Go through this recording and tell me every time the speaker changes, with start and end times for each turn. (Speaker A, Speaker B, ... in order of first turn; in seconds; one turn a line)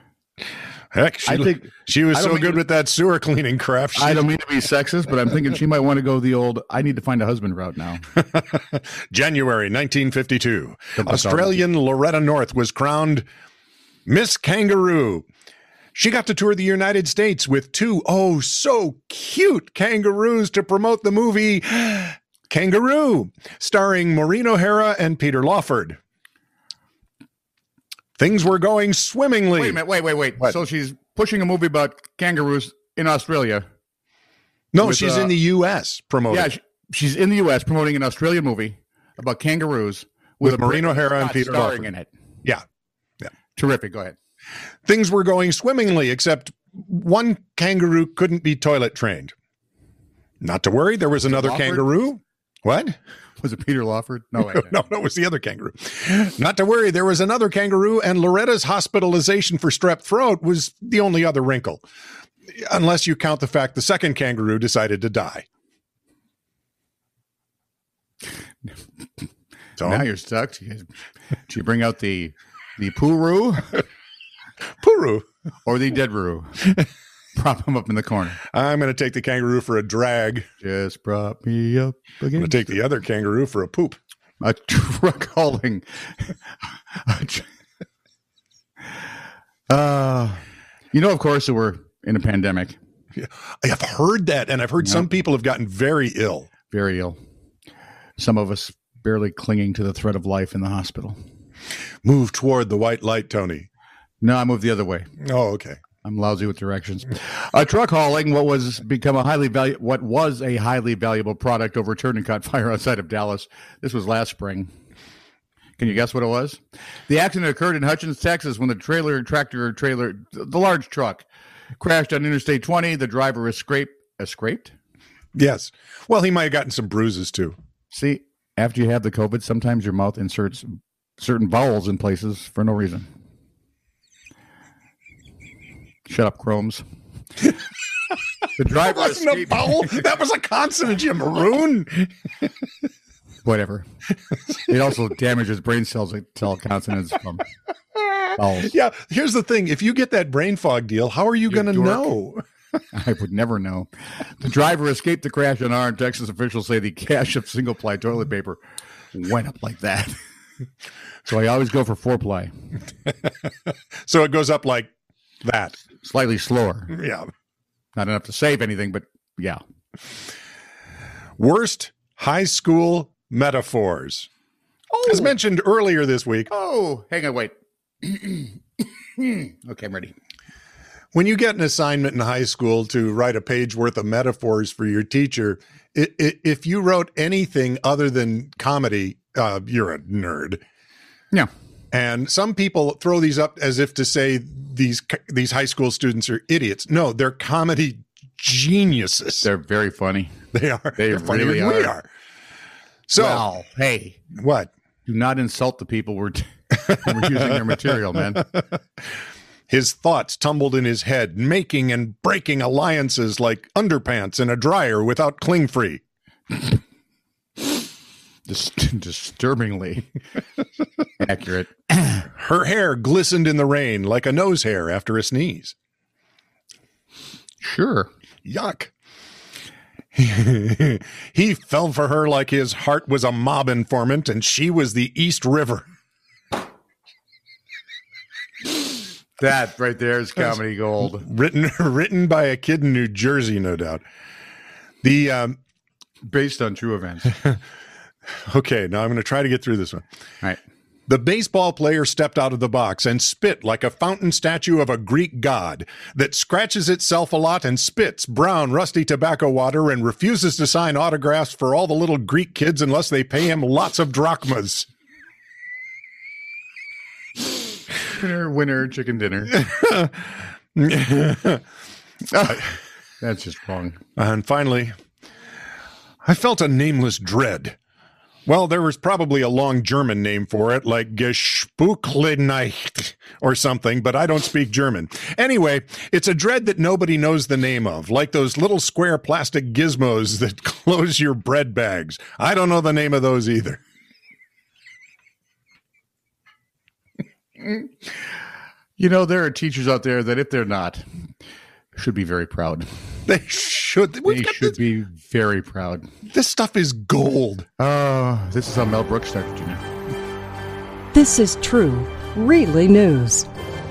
Speaker A: 0.9-4.2
Speaker B: 1.2-2.6
Speaker B: 3.9-8.0
Speaker A: 8.3-13.2
Speaker B: 11.0-11.6
Speaker A: 14.1-15.2
Speaker A: 15.9-26.0
Speaker A: 28.2-29.8
Speaker B: 29.6-33.6
Speaker A: 34.7-36.5
Speaker B: 34.8-35.3
Speaker B: 36.3-42.1
Speaker A: 40.4-41.9
Speaker B: 43.5-44.1
Speaker A: 44.8-49.3
Speaker A: 50.4-53.0
Speaker B: 51.3-51.9
Speaker B: 53.4-54.8
Speaker A: 54.4-61.8
Speaker A: 62.5-65.5
Speaker A: 69.8-70.0
Speaker B: 69.8-70.9
Speaker B: 71.5-73.8
Speaker A: 74.8-75.3
Speaker B: 75.6-78.4
Speaker A: 78.4-80.5
Speaker B: 80.6-82.6
Speaker A: 82.4-84.0
Speaker B: 84.4-86.4
Speaker B: 86.9-87.5
Speaker B: 89.7-90.4
Speaker B: 90.9-92.8
Speaker A: 93.1-96.5
Speaker B: 96.7-97.2
Speaker B: 98.2-101.2
Speaker A: 102.0-103.7
Speaker B: 104.2-105.1
Speaker A: 105.2-105.8
Speaker B: 106.0-114.7
Speaker B: 115.8-121.3
Speaker B: 121.8-124.7
Speaker A: 125.3-127.6
Speaker B: 127.9-133.1
Speaker B: 136.1-136.8
Speaker B: 138.6-140.0
Speaker A: 138.7-142.1
Speaker B: 143.4-143.9
Speaker B: 144.6-147.4
Speaker A: 148.0-152.4
Speaker B: 148.4-148.7
Speaker B: 151.5-152.0
Speaker B: 152.9-158.6
Speaker B: 159.1-160.2
Speaker B: 161.2-162.5
Speaker A: 164.1-164.9
Speaker A: 165.4-165.8
Speaker B: 166.0-166.9
Speaker A: 166.9-167.3
Speaker B: 167.9-169.6
Speaker A: 171.4-174.3
Speaker B: 174.9-175.3
Speaker A: 175.1-176.5
Speaker B: 176.5-180.1
Speaker A: 181.1-190.6
Speaker A: 191.9-199.5
Speaker B: 199.4-200.3
Speaker A: 200.5-202.1
Speaker B: 201.0-201.9
Speaker A: 203.1-203.5
Speaker B: 203.2-204.2
Speaker A: 204.3-204.7
Speaker B: 205.1-208.4
Speaker A: 209.7-216.0
Speaker B: 218.5-220.1
Speaker B: 221.2-222.3
Speaker A: 222.3-225.8
Speaker B: 227.6-228.1
Speaker A: 228.4-228.9
Speaker A: 230.1-235.9
Speaker B: 239.4-241.2
Speaker A: 241.0-244.0
Speaker A: 245.0-245.6
Speaker B: 246.2-247.3
Speaker A: 247.3-247.6
Speaker A: 248.4-250.0
Speaker A: 251.1-264.9
Speaker B: 268.1-269.6
Speaker A: 269.5-271.6
Speaker B: 272.3-274.0
Speaker A: 274.1-274.9
Speaker A: 276.2-277.8
Speaker A: 278.4-293.8
Speaker B: 297.6-298.1
Speaker B: 299.0-301.1
Speaker B: 302.0-302.9
Speaker A: 303.3-304.8
Speaker B: 304.2-306.1
Speaker A: 306.2-307.7
Speaker B: 307.8-309.8
Speaker C: 311.1-313.5